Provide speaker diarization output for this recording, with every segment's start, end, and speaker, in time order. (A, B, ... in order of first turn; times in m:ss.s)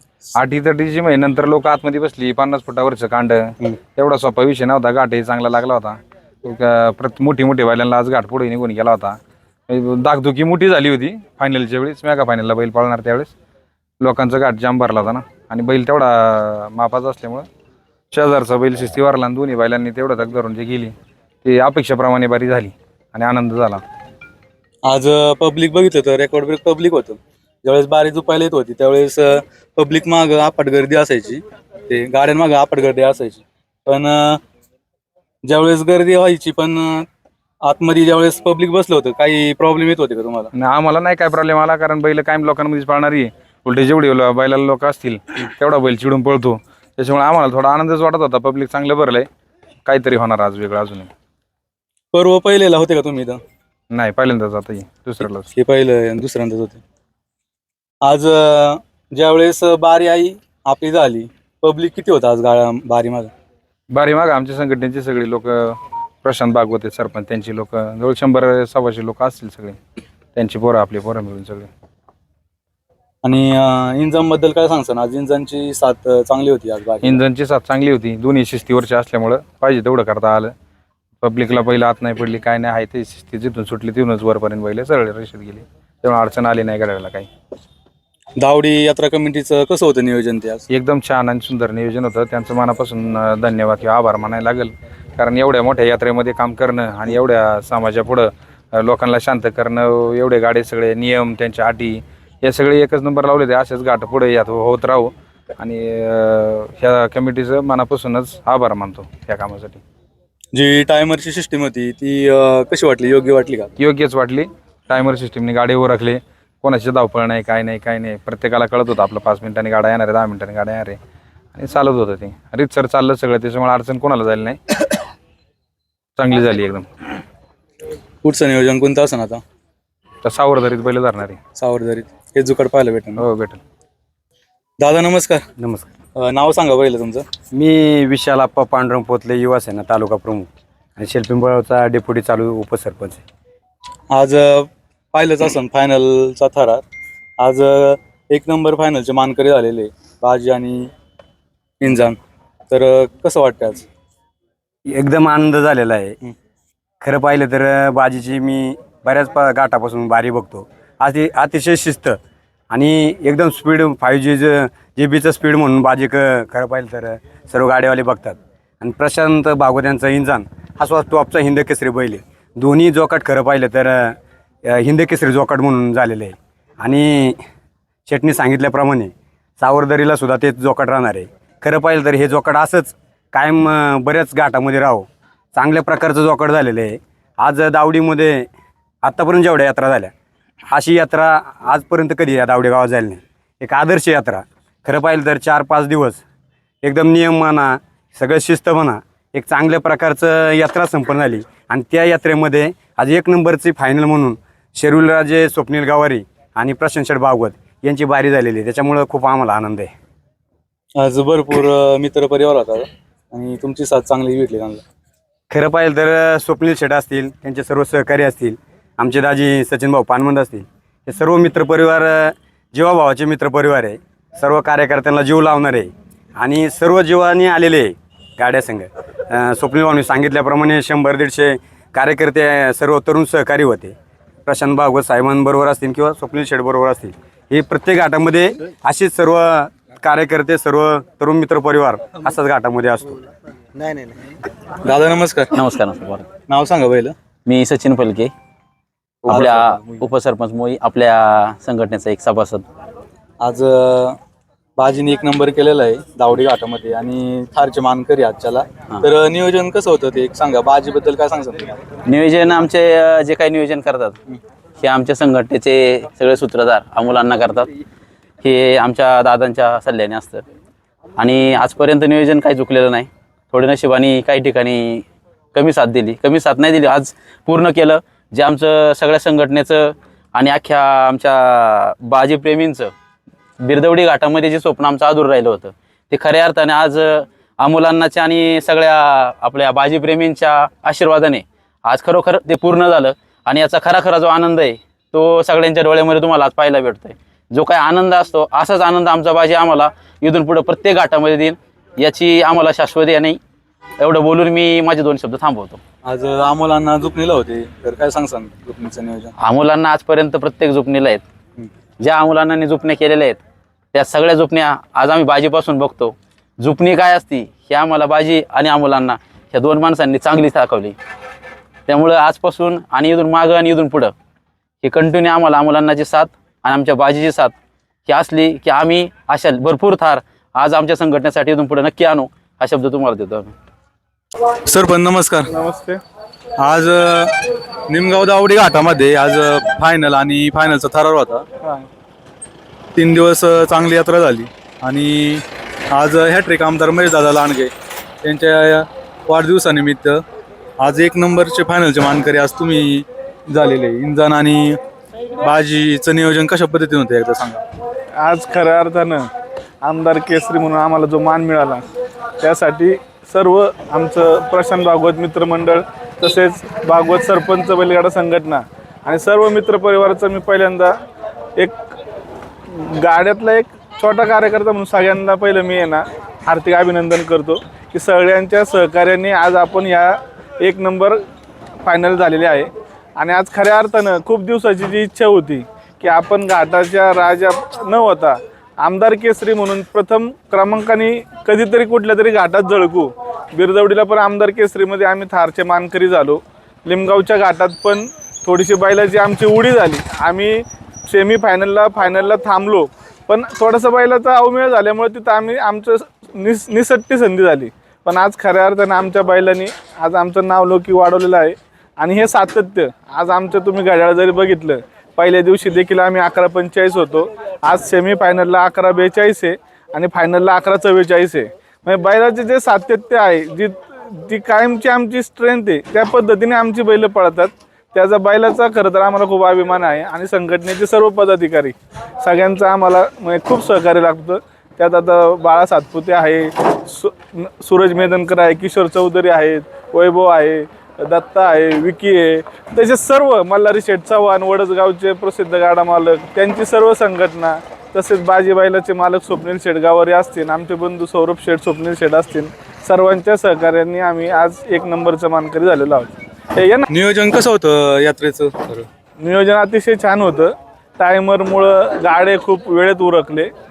0:00.4-0:09.2 A
0:09.7-0:13.3 A
0:14.0-0:17.4 A
0:18.1-0:20.9 A
0:21.4-0:23.8 A
0:24.9-0:34.4 B
0:35.4-0:37.0 B
0:37.6-0:40.5 B
0:40.5-0:49.3 A
0:49.8-0:51.1 A
0:52.1-0:53.4 B
0:53.9-0:55.5 A
0:55.5-0:56.8 B
0:58.0-1:03.3 B
1:03.9-1:09.8 A
1:10.4-1:11.7 A
1:13.2-1:17.2 B
1:17.0-1:20.5 A
1:21.2-1:27.3 A
1:28.4-1:30.6 B
1:30.7-1:49.8 A
1:50.5-1:53.7 B
1:53.8-2:01.0 A
2:01.5-2:04.6 A
2:06.2-2:06.8 A
2:08.2-2:09.4 B
2:10.2-2:11.4 A
2:11.6-2:13.2 B
2:13.2-2:13.6 A
2:14.8-2:15.4 B
2:15.6-2:15.9 C
2:16.2-2:17.2 B
2:17.5-2:23.2 C
2:24.1-2:26.8 B
2:27.4-2:30.9 B
2:31.8-2:32.2 B
2:32.7-2:33.8 B
2:34.8-2:36.2 C
2:37.0-2:42.2 C
2:42.7-2:57.4 C
2:58.0-3:08.5 C
3:09.0-3:10.1 C
3:10.7-3:16.2 C
3:16.8-3:29.9 C
3:31.0-3:34.8 B
3:35.5-3:53.9 C
3:54.4-4:03.2 C
4:04.8-4:05.6 B
4:05.5-4:06.3 D
4:06.5-4:07.1 B
4:07.4-4:08.3 D
4:09.2-4:12.6 D
4:09.3-4:09.6 B
4:13.4-4:14.2 B
4:14.8-4:21.7 B
4:22.0-4:24.2 D
4:24.8-4:27.7 D
4:28.4-4:30.4 D
4:31.2-4:42.9 D
4:43.6-5:03.4 D
5:04.0-5:05.8 D
5:06.0-5:09.3 B
5:09.4-5:11.2 D
5:12.0-5:13.4 D
5:13.9-5:20.9 D
5:21.9-5:24.1 D
5:24.8-5:27.5 D
5:28.1-5:33.5 D
5:34.6-5:35.5 B
5:35.5-5:36.0 E
5:36.6-5:37.3 B
5:37.9-5:41.4 B
5:43.0-5:47.7 B
5:48.2-5:50.2 B
5:50.8-5:54.8 B
5:55.4-5:57.6 B
5:58.2-5:59.2 E
5:59.8-6:01.8 E
6:02.4-6:10.9 E
6:12.7-6:21.2 E
6:21.8-7:36.8 E
7:36.9-7:38.9 B
7:39.2-7:43.5 E